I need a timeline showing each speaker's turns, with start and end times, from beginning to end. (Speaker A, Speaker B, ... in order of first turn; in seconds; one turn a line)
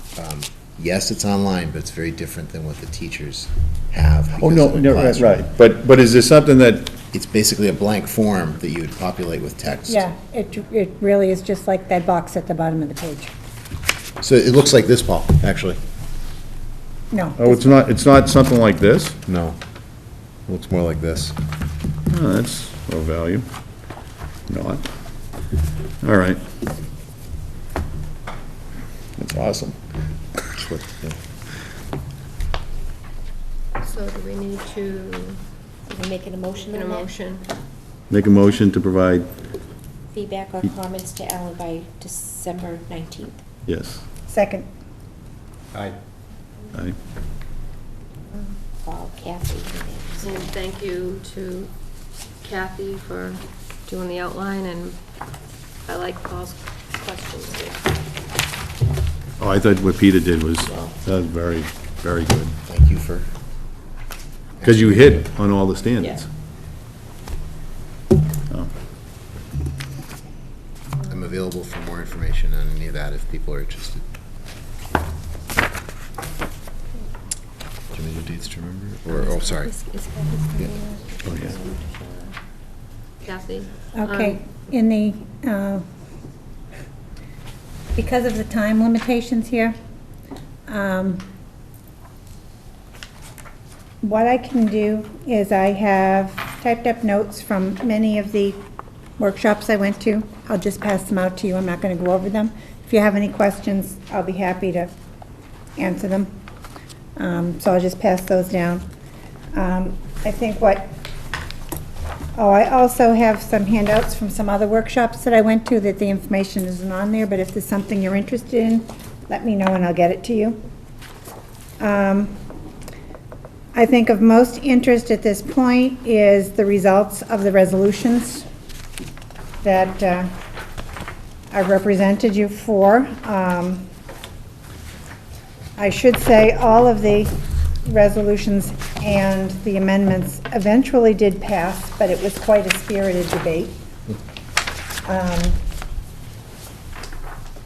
Speaker A: 0.2-5.5
Speaker B: 4.4-6.9
Speaker A: 7.1-10.1
Speaker C: 9.9-13.3
Speaker A: 14.2-15.8
Speaker C: 17.1-17.8
Speaker B: 17.4-19.2
Speaker A: 19.3-19.6
Speaker A: 20.5-21.4
Speaker B: 22.1-23.4
Speaker B: 24.5-24.9
Speaker B: 26.0-26.4
Speaker B: 29.2-29.8
Speaker A: 30.7-31.1
Speaker D: 33.8-35.4
Speaker E: 35.9-37.1
Speaker D: 36.7-37.5
Speaker B: 38.1-39.3
Speaker E: 40.1-43.4
Speaker B: 43.7-44.0
Speaker C: 44.3-44.7
Speaker E: 48.8-50.5
Speaker D: 50.2-51.7
Speaker D: 52.4-55.0
Speaker D: 55.9-57.8
Speaker B: 59.4-62.5
Speaker A: 62.6-63.3
Speaker A: 64.6-65.2
Speaker B: 64.6-66.3
Speaker A: 71.0-74.0
Speaker A: 77.9-79.7
Speaker D: 79.1-82.4
Speaker B: 81.3-81.5
Speaker D: 83.2-84.4
Speaker C: 83.9-85.8
Speaker C: 88.0-89.8
Speaker C: 90.7-91.2
Speaker C: 94.0-98.6
Speaker C: 99.2-104.9
Speaker C: 105.8-106.3
Speaker C: 107.2-108.8
Speaker C: 109.5-110.9
Speaker C: 112.3-120.6
Speaker C: 121.8-122.4
Speaker C: 123.7-128.5
Speaker C: 129.6-130.3
Speaker C: 131.5-133.9
Speaker C: 135.8-143.8
Speaker C: 145.1-145.6